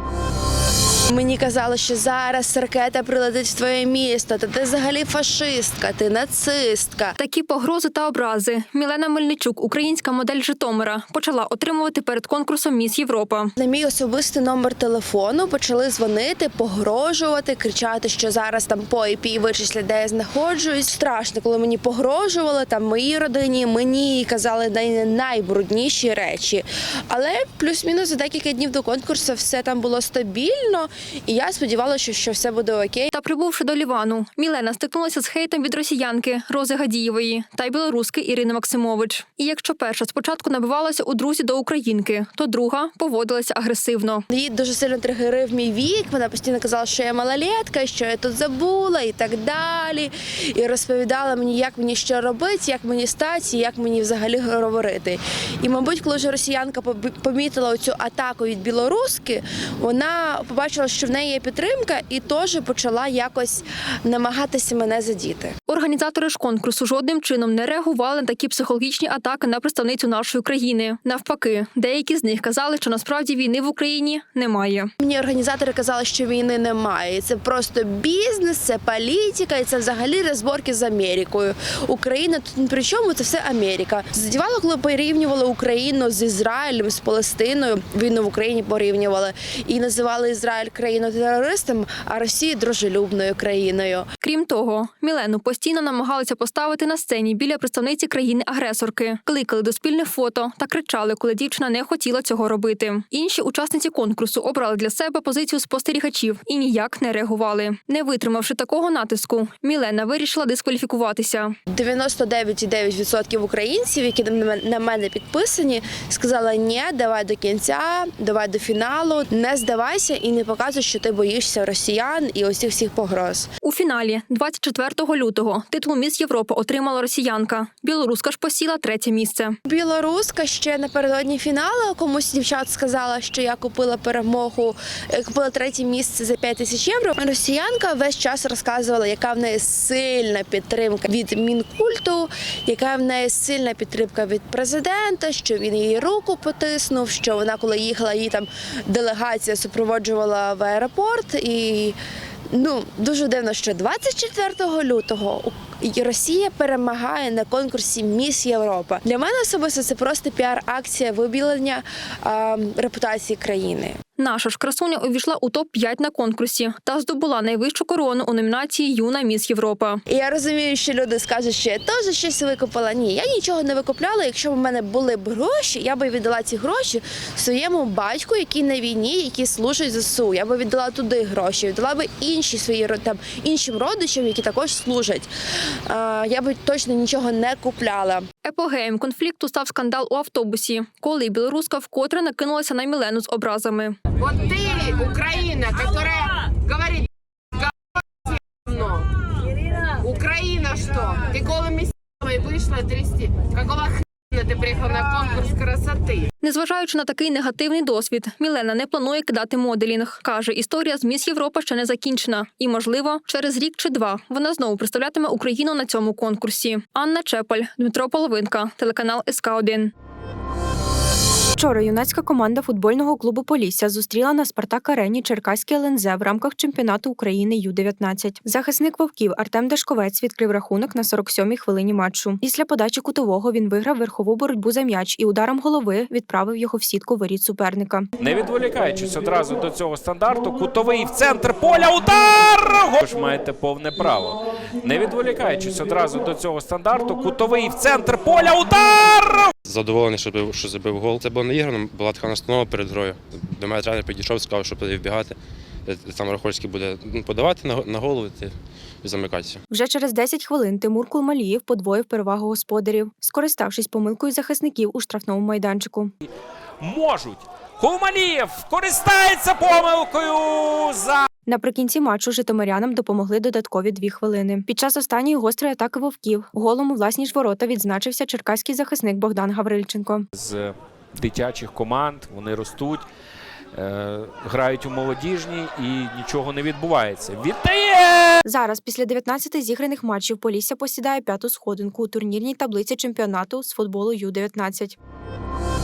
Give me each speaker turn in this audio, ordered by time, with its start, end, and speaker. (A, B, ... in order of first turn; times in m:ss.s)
0:01.1-0:07.2 A
0:07.2-0:13.5 B
0:13.6-0:33.1 A
0:33.1-0:44.2 B
0:44.3-1:05.5 A
1:05.6-1:14.9 B
1:15.0-1:34.1 A
1:34.2-1:51.5 B
1:51.7-2:03.5 A
2:03.6-2:09.6 B
2:09.6-2:32.0 A
2:32.5-2:44.0 A
2:44.2-2:50.0 B
2:50.1-3:05.3 A
3:05.9-3:08.3 A
3:08.4-3:14.0 B
3:14.2-3:17.1 C
3:18.6-3:19.1 C
3:20.0-3:26.2 C
3:26.4-3:39.9 B
3:41.6-3:58.1 D
3:58.2-4:09.5 E
4:09.6-4:19.6 F
4:19.7-4:26.1 D
4:26.8-4:31.2 E
4:31.5-4:40.3 D
4:40.4-4:43.0 E
4:43.7-4:48.4 E
4:48.4-4:55.0 D